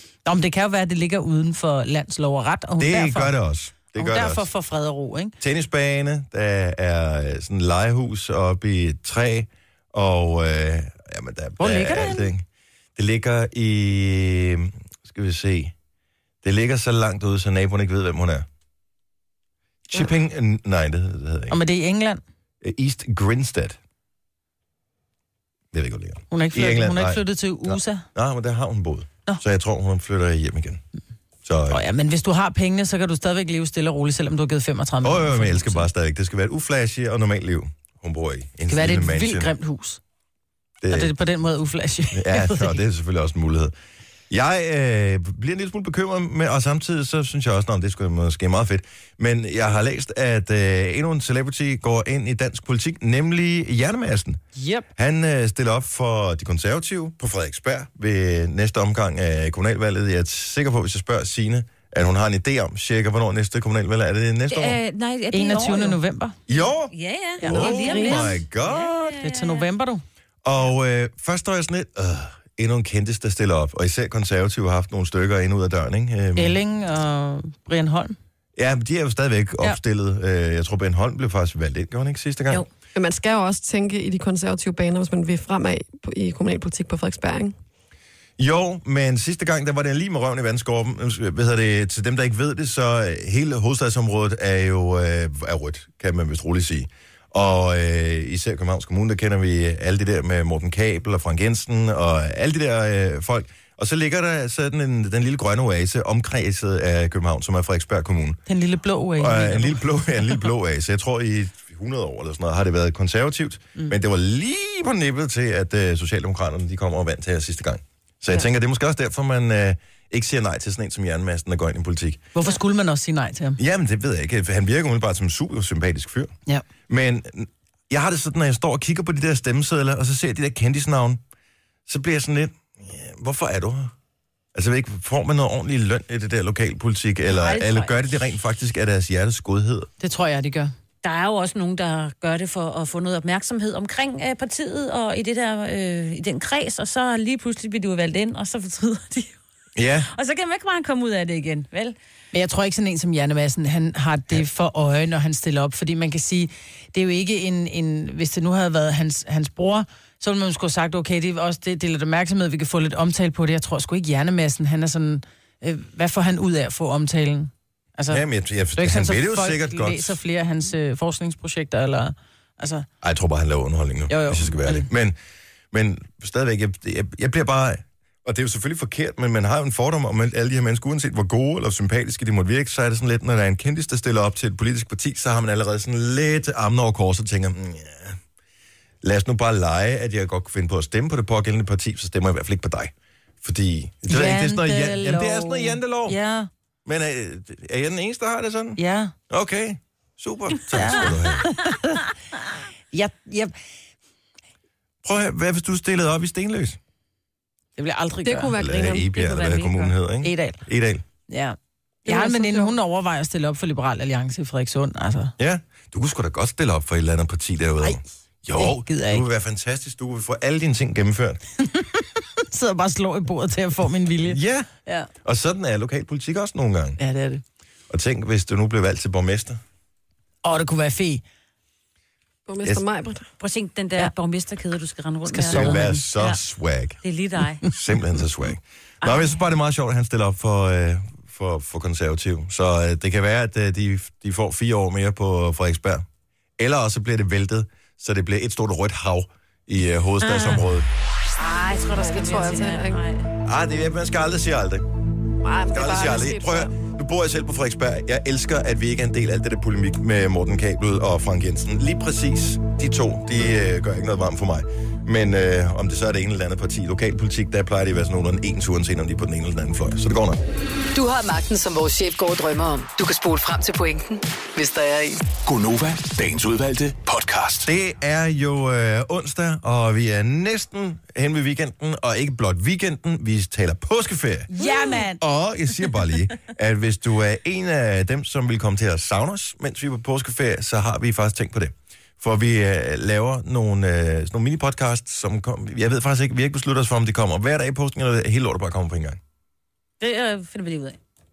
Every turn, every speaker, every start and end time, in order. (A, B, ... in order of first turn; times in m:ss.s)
0:00.2-0:03.4 A
0:02.8-0:04.5 B
0:03.9-0:05.3 A
0:05.4-0:12.4 B
0:11.6-0:12.3 A
0:13.0-0:15.7 B
0:16.4-0:18.4 B
0:19.9-0:21.6 B
0:21.5-0:22.2 A
0:22.6-0:23.8 B
0:25.7-0:30.8 B
0:26.3-0:28.0 A
0:31.4-0:31.8 B
0:31.7-0:35.8 A
0:35.0-0:39.5 B
0:38.7-0:40.0 A
0:40.8-0:41.1 B
0:40.9-0:42.8 A
0:42.1-0:43.7 B
0:44.3-0:54.4 B
0:54.6-0:54.9 A
0:55.0-1:04.8 B
1:04.5-1:06.0 C
1:05.3-1:06.4 A
1:06.5-1:09.2 B
1:06.5-1:09.6 C
1:07.4-1:08.3 A
1:09.2-1:10.0 A
1:10.4-1:16.6 B
1:16.3-1:18.2 A
1:18.6-1:22.6 B
1:22.9-1:27.5 D
1:28.4-1:48.4 B
1:48.5-1:49.8 A
1:49.2-2:02.3 B
2:02.3-2:03.6 A
2:03.6-2:06.3 B
2:06.9-2:11.2 B
2:11.9-2:13.9 B
2:14.5-2:19.9 B
2:17.3-2:17.9 C
2:20.0-2:20.7 A
2:21.0-2:29.4 C
2:29.8-2:30.1 B
2:30.1-2:32.0 C
2:32.3-2:48.2 A
2:48.1-2:50.2 B
2:48.8-2:52.8 A
2:53.0-2:55.2 B
2:54.1-2:54.9 A
2:55.7-3:08.2 B
3:09.0-3:12.9 B
3:13.4-3:16.2 B
3:14.1-3:16.5 A
3:16.8-3:21.5 B
3:18.8-3:19.1 A
3:20.7-3:22.1 A
3:22.9-3:23.5 A
3:25.0-3:26.8 B
3:27.8-3:28.5 A
3:28.2-3:29.1 D
3:28.6-3:31.0 B
3:29.0-3:29.9 C
3:30.2-3:30.6 A
3:31.3-3:35.3 A
3:32.0-3:32.7 D
3:35.4-3:41.4 B
3:38.5-3:39.2 A
3:41.6-3:45.1 A
3:44.2-3:44.7 B
3:45.2-3:47.0 B
3:47.0-3:47.4 A
3:47.9-3:49.6 B
3:50.4-3:51.2 A
3:52.5-3:53.3 D
3:53.4-3:56.4 C
3:55.3-3:56.0 A
3:55.5-3:57.0 B
3:57.0-3:57.7 C
3:57.7-4:06.0 B
3:59.0-3:59.4 C
4:06.6-4:10.9 B
4:10.2-4:10.6 C
4:11.4-4:13.3 C
4:11.9-4:13.0 D
4:13.4-4:14.8 B
4:15.4-4:16.7 D
4:15.7-4:30.4 B
4:30.9-4:35.2 E
4:35.3-4:37.7 F
4:37.6-4:44.5 B
4:44.5-4:45.2 A
4:44.6-4:44.9 C
4:45.2-4:59.2 B
5:00.0-5:01.0 C